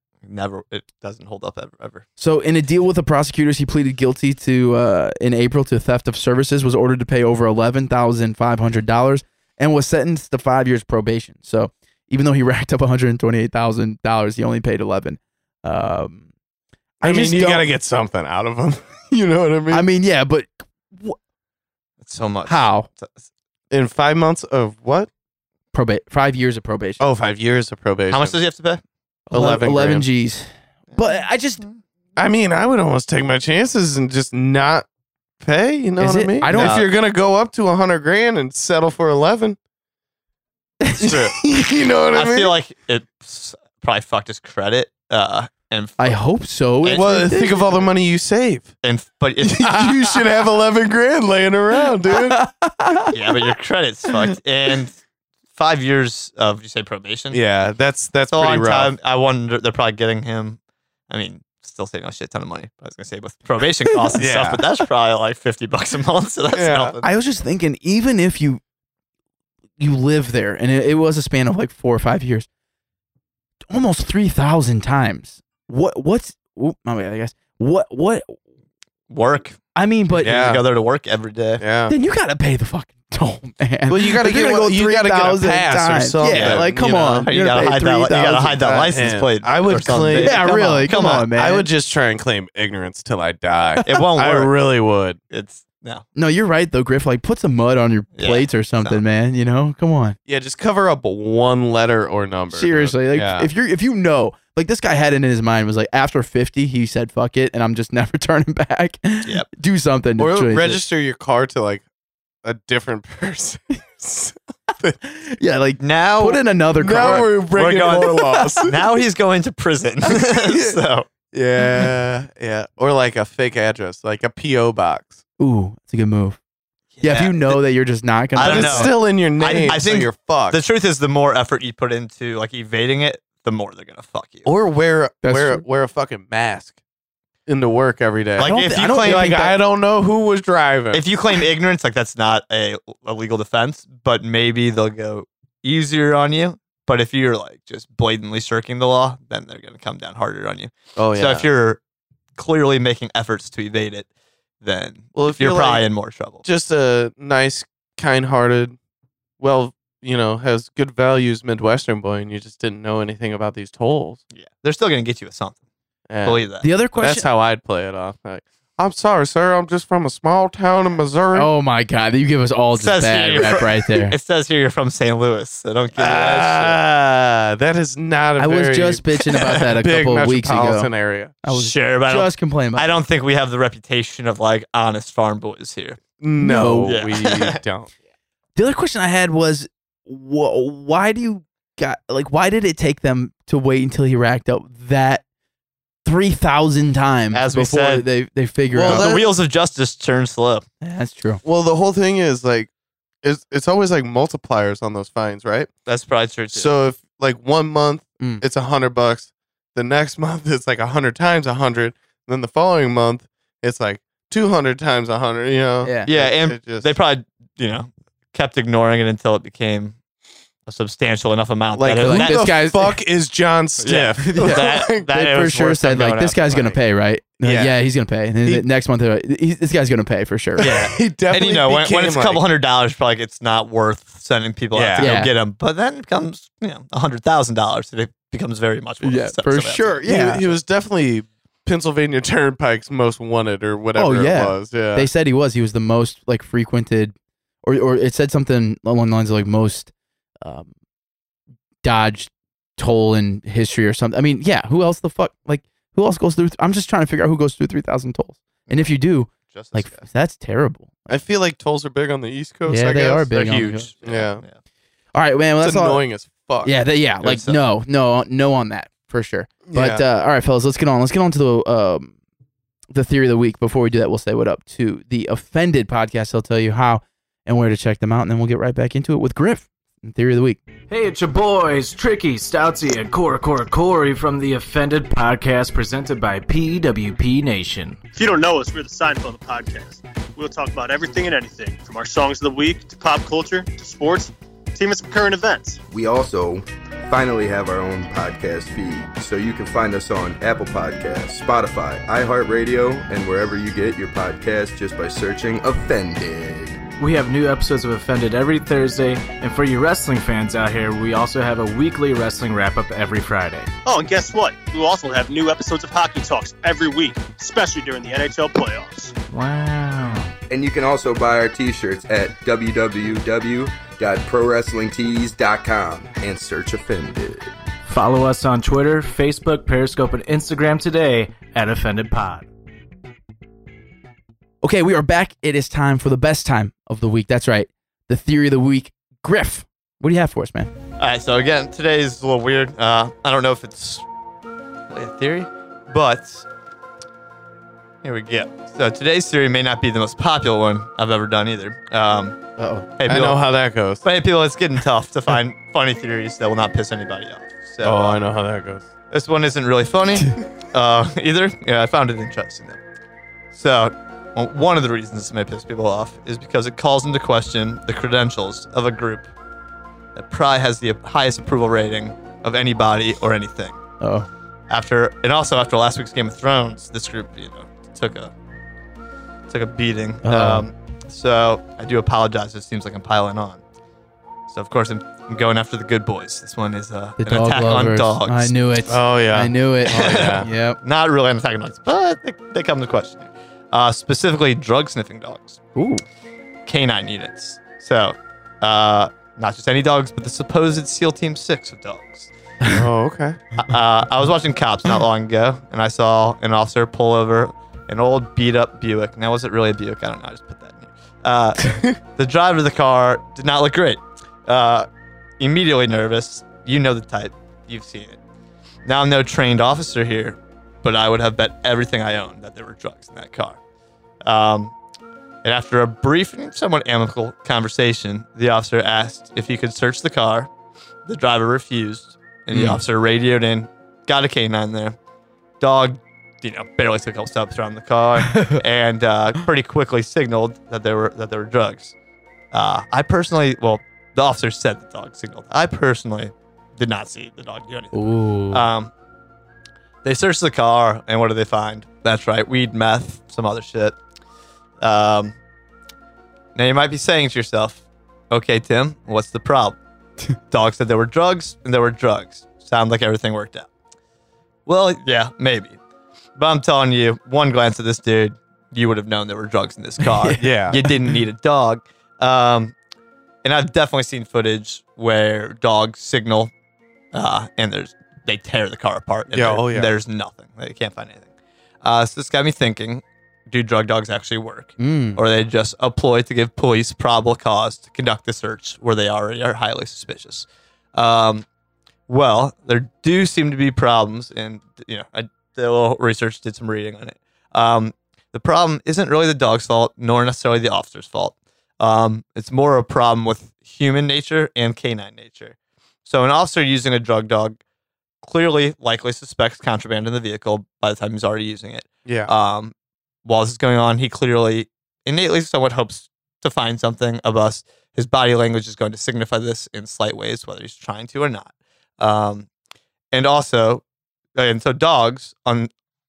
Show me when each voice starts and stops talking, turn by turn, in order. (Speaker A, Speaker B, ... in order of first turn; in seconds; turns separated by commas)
Speaker A: 0.2-2.0, Speaker B: 2.2-16.2, Speaker B: 17.0-17.6, Speaker C: 17.0-19.9, Speaker B: 19.7-21.2, Speaker A: 22.0-23.2, Speaker B: 22.4-22.9, Speaker C: 23.7-25.1, Speaker B: 25.7-27.0, Speaker C: 27.0-28.4, Speaker A: 28.1-28.8, Speaker B: 29.3-31.6, Speaker C: 29.3-30.1, Speaker A: 30.9-31.8, Speaker C: 32.1-34.9, Speaker C: 35.4-39.6, Speaker B: 36.0-36.8, Speaker A: 36.5-36.9, Speaker B: 40.8-41.3, Speaker C: 41.0-42.5, Speaker A: 42.1-46.2, Speaker B: 46.0-47.6, Speaker A: 46.8-47.1, Speaker C: 46.9-48.7, Speaker A: 48.8-49.9, Speaker C: 49.4-52.4, Speaker B: 52.1-53.1, Speaker A: 53.1-55.0, Speaker A: 55.5-57.4, Speaker C: 57.3-58.9, Speaker A: 58.2-60.6, Speaker A: 61.1-67.0, Speaker C: 64.2-64.6, Speaker C: 66.5-67.0, Speaker B: 67.0-68.6, Speaker B: 69.8-72.5, Speaker B: 73.7-78.3, Speaker A: 79.1-79.6, Speaker B: 79.7-80.3, Speaker C: 80.2-80.6, Speaker A: 80.2-81.6, Speaker C: 81.6-81.9, Speaker B: 81.9-88.8, Speaker C: 83.9-87.3, Speaker A: 86.3-91.3, Speaker C: 88.8-95.2, Speaker B: 90.1-91.7, Speaker A: 93.8-94.5, Speaker A: 95.3-96.0, Speaker B: 96.1-100.2, Speaker A: 98.2-99.0, Speaker C: 100.3-103.5, Speaker B: 102.5-110.8, Speaker C: 110.2-111.8, Speaker C: 112.4-114.9, Speaker B: 115.0-117.4, Speaker A: 115.8-116.4, Speaker C: 116.8-118.7, Speaker A: 117.5-121.1, Speaker C: 120.1-120.8, Speaker C: 121.3-125.2, Speaker B: 125.4-126.4, Speaker A: 127.0-127.6, Speaker B: 127.0-128.9, Speaker A: 128.3-134.5, Speaker C: 128.4-130.6, Speaker C: 134.4-136.8, Speaker B: 135.2-135.6, Speaker C: 137.5-141.1, Speaker A: 138.4-139.3, Speaker B: 138.4-139.6, Speaker A: 140.9-151.8, Speaker C: 150.9-151.5, Speaker A: 152.3-154.1, Speaker A: 154.6-156.4, Speaker C: 155.1-155.9, Speaker C: 156.4-158.8, Speaker C: 159.4-164.2, Speaker A: 164.3-165.6, Speaker C: 166.1-166.4, Speaker A: 166.2-166.6, Speaker B: 166.6-167.2, Speaker C: 167.0-171.5, Speaker B: 171.3-174.2, Speaker A: 172.7-176.8, Speaker C: 175.9-181.3, Speaker B: 178.4-180.9, Speaker B: 181.4-182.9, Speaker A: 181.5-186.0, Speaker C: 186.2-187.9, Speaker B: 186.4-187.0, Speaker A: 186.9-187.6, Speaker B: 188.6-195.2, Speaker B: 196.0-199.1, Speaker A: 197.3-198.1, Speaker C: 198.7-199.3, Speaker A: 198.8-200.6, Speaker B: 200.8-201.4, Speaker C: 201.4-202.7, Speaker C: 203.2-205.7, Speaker A: 205.8-206.7, Speaker C: 206.5-216.9, Speaker B: 215.8-216.1, Speaker A: 216.0-219.9, Speaker A: 220.7-222.4, Speaker C: 221.7-225.1, Speaker B: 222.0-223.0, Speaker A: 223.8-226.8, Speaker B: 224.2-230.9, Speaker C: 227.4-227.8, Speaker C: 230.6-232.4, Speaker A: 231.3-240.0, Speaker C: 234.7-235.2, Speaker B: 235.0-235.3, Speaker B: 239.0-240.4, Speaker C: 240.0-245.1, Speaker B: 243.9-249.9, Speaker B: 250.4-250.7, Speaker B: 251.8-261.1, Speaker A: 259.5-260.0, Speaker C: 261.1-263.3, Speaker B: 262.7-263.9, Speaker A: 263.3-264.6, Speaker C: 264.0-264.4, Speaker B: 265.1-266.0, Speaker C: 265.6-266.8, Speaker B: 266.6-272.1, Speaker A: 267.2-267.6, Speaker C: 269.6-270.0, Speaker B: 272.9-280.6, Speaker D: 280.9-288.0, Speaker E: 288.1-295.8, Speaker F: 295.9-306.8, Speaker D: 307.0-313.7, Speaker E: 313.8-319.1, Speaker D: 319.3-320.3, Speaker F: 320.5-327.5, Speaker D: 327.9-332.5, Speaker B: 334.6-340.7, Speaker A: 341.0-344.0, Speaker A: 344.9-346.4, Speaker A: 348.0-352.4, Speaker B: 352.6-352.9, Speaker A: 353.0-353.5, Speaker C: 353.0-354.0, Speaker A: 354.0-358.2, Speaker C: 357.8-358.8, Speaker A: 359.1-362.8, Speaker A: 363.5-369.3, Speaker A: 370.1-373.8, Speaker B: 374.0-374.3, Speaker A: 374.7-378.3, Speaker A: 379.5-383.6, Speaker B: 380.2-380.6, Speaker A: 384.5-388.5, Speaker B: 387.2-390.8, Speaker C: 388.9-390.5, Speaker A: 389.9-395.6, Speaker B: 395.7-396.0, Speaker A: 396.6-402.3, Speaker C: 402.7-403.4, Speaker A: 403.6-414.9, Speaker A: 415.4-418.2, Speaker A: 418.8-423.6, Speaker A: 424.2-424.7, Speaker A: 425.4-430.5, Speaker A: 431.1-434.9, Speaker B: 432.5-432.8, Speaker A: 435.6-441.9, Speaker B: 438.3-438.6, Speaker A: 442.5-448.0, Speaker B: 447.9-448.6, Speaker A: 448.5-448.9, Speaker A: 450.0-453.9, Speaker A: 454.8-455.3, Speaker A: 456.5-459.8, Speaker A: 460.5-463.7, Speaker A: 464.6-465.8, Speaker A: 466.4-472.7, Speaker B: 470.1-470.9, Speaker C: 470.4-470.8, Speaker A: 473.4-476.5, Speaker A: 477.1-481.3, Speaker C: 479.3-479.9, Speaker A: 481.8-491.4, Speaker B: 484.8-485.2, Speaker A: 492.1-507.6, Speaker A: 508.2-512.7, Speaker C: 512.0-512.3, Speaker A: 513.2-522.5, Speaker A: 523.1-523.8, Speaker A: 524.4-525.7